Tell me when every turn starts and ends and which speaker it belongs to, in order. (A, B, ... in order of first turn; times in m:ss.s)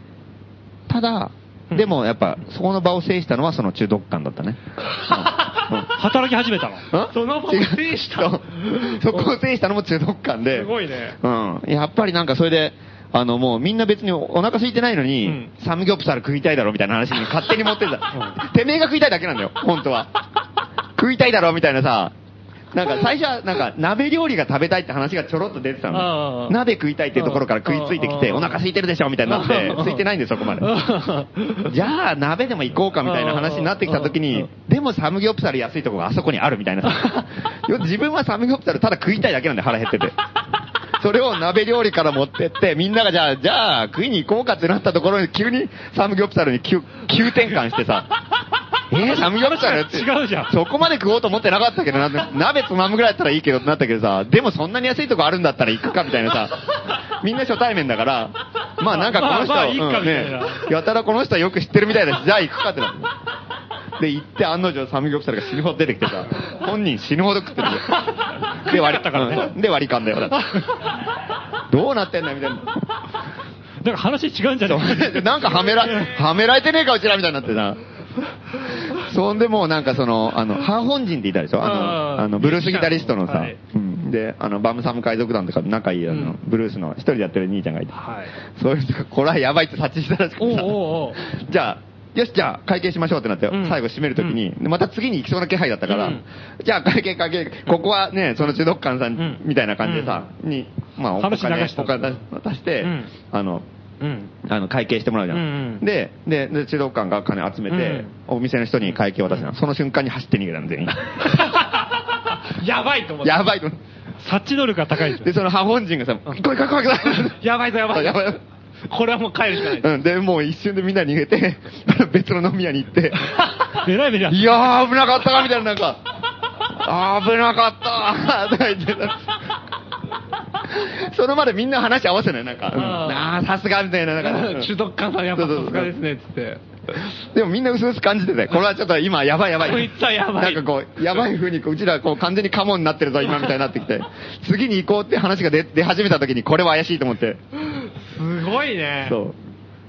0:00.9-0:05.9 A
0:01.7-0:02.0 B
0:05.0-0:05.6 B
0:05.9-0:06.9 C
0:06.9-0:20.1 A
0:07.1-0:09.4 B
0:10.5-0:11.2 B
0:15.2-0:15.5 B
0:21.0-0:22.1 A
0:22.7-0:30.9 A
0:25.9-0:26.6 B
0:27.2-0:28.6 B
0:29.3-0:31.7 B
0:31.6-0:40.2 A
0:33.0-0:34.5 B
0:41.0-0:48.1 A
0:48.9-1:03.1 A
0:49.0-0:50.6 C
0:58.9-1:00.7 C
1:04.0-1:10.7 A
1:08.4-1:09.5 C
1:11.7-1:12.8 A
1:13.8-1:16.1 C
1:14.6-1:17.8 A
1:18.7-1:43.7 A
1:21.6-1:23.6 B
1:26.1-1:26.4 B
1:27.9-1:28.4 B
1:30.4-1:31.2 B
1:33.5-1:34.4 B
1:35.9-1:36.2 B
1:39.2-1:40.2 B
1:41.2-1:42.2 C
1:42.8-1:43.1 B
1:44.0-1:44.3 B
1:44.4-1:51.4 A
1:45.3-1:45.8 B
1:47.7-1:48.1 B
1:51.2-1:53.5 B
1:53.2-1:53.8 A
1:54.2-1:55.4 C
1:55.0-1:58.4 A
1:57.1-1:59.9 B
1:59.6-2:03.5 A
2:03.8-2:04.6 C
2:04.3-2:06.0 A
2:06.6-2:09.4 A
2:10.6-2:14.7 A
2:12.7-2:13.3 B
2:14.2-2:17.0 B
2:15.3-2:15.9 A
2:17.2-2:27.4 A
2:19.6-2:21.3 B
2:27.7-2:29.2 B
2:29.0-2:29.4 A